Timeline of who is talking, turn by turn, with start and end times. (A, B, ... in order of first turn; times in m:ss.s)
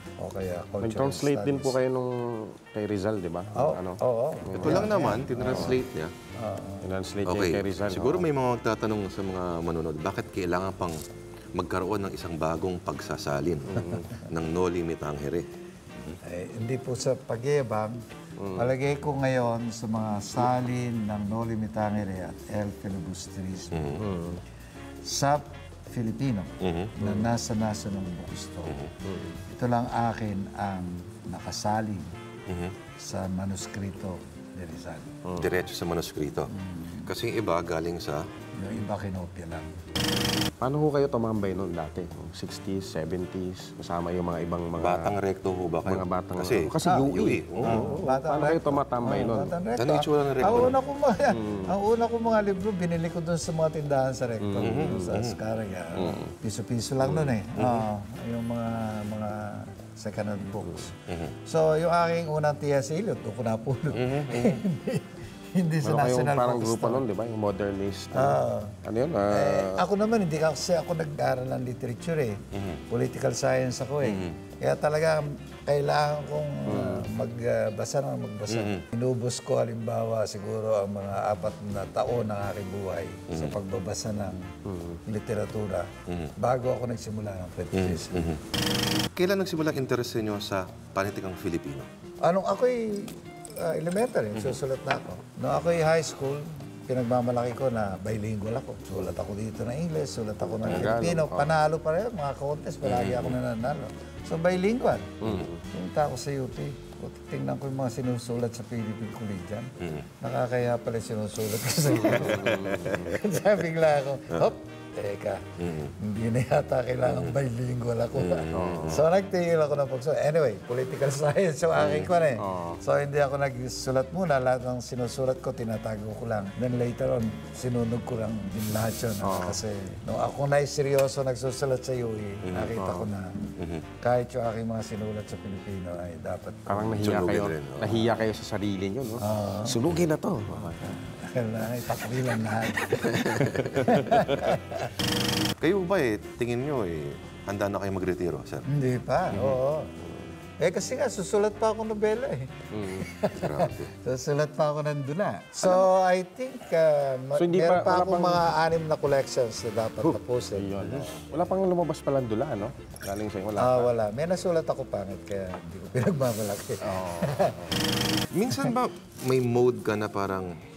0:00.2-0:01.8 A
0:00.8-0:05.8 B
0:03.5-0:05.8 A
0:04.6-0:06.1 C
0:06.4-0:06.8 A
0:06.8-0:08.2 B
0:07.2-0:11.0 C
0:11.5-0:15.5 C
0:13.7-0:14.1 B
0:16.2-0:18.0 A
0:18.4-0:18.7 B
0:18.5-0:24.1 A
0:23.7-0:24.0 C
0:24.0-0:24.4 B
0:25.0-0:28.8 A
0:26.6-0:27.0 C
0:27.0-0:27.3 B
0:28.6-0:28.9 C
0:29.0-0:29.4 B
0:29.5-0:32.1 A
0:32.5-0:32.8 C
0:33.0-0:35.2 A
0:35.2-0:35.5 B
0:35.3-0:36.5 C
0:36.5-0:37.1 A
0:37.0-0:38.3 C
0:38.6-0:39.8 A
0:40.6-0:45.2 B
0:44.8-0:47.9 C
0:45.8-0:49.5 B
0:46.8-1:07.0 A
0:49.8-0:50.8 C
0:50.4-0:50.7 B
0:51.3-0:51.7 B
0:54.4-0:55.2 B
0:54.6-0:55.4 C
0:56.0-0:56.3 B
0:57.0-0:57.3 B
0:57.5-0:57.8 C
1:01.1-1:01.3 C
1:03.9-1:04.6 C
1:05.8-1:09.8 B
1:08.1-1:08.8 A
1:09.3-1:24.5 A
1:12.5-1:12.8 C
1:14.0-1:14.4 C
1:16.7-1:17.0 B
1:18.5-1:18.8 C
1:23.3-1:23.6 C
1:24.6-1:25.0 B
1:25.0-1:28.3 A
1:26.1-1:26.3 C
1:27.7-1:28.4 C
1:29.1-1:31.9 C
1:32.2-1:45.2 A
1:34.3-1:34.6 C
1:40.4-1:41.6 B
1:40.7-1:41.0 C
1:42.8-1:43.4 C
1:45.2-1:45.6 B
1:45.2-1:45.5 C
1:45.7-2:17.0 A
1:49.8-1:50.1 C
1:51.9-1:53.0 B
1:52.1-1:53.1 C
1:55.6-1:55.9 C
1:57.0-1:57.4 C
1:58.1-1:59.0 C
1:58.5-1:59.0 B
2:01.8-2:02.1 C
2:02.4-2:02.8 B
2:09.2-2:09.6 B
2:12.4-2:12.8 C
2:12.8-2:13.1 B
2:13.6-2:13.8 C
2:16.7-2:21.0 B
2:17.0-2:18.1 C
2:19.2-2:19.8 A
2:20.8-2:24.9 A
2:23.0-2:24.2 B
2:23.2-2:23.9 C
2:25.6-2:28.6 C
2:28.6-2:29.9 A
2:29.3-2:30.3 B
2:30.6-2:40.8 A
2:32.7-2:33.1 B
2:33.3-2:33.9 C
2:37.4-2:38.5 B
2:40.0-2:43.9 B
2:40.8-2:41.1 C
2:43.6-2:47.6 A
2:46.8-2:47.9 B
2:48.3-2:50.5 C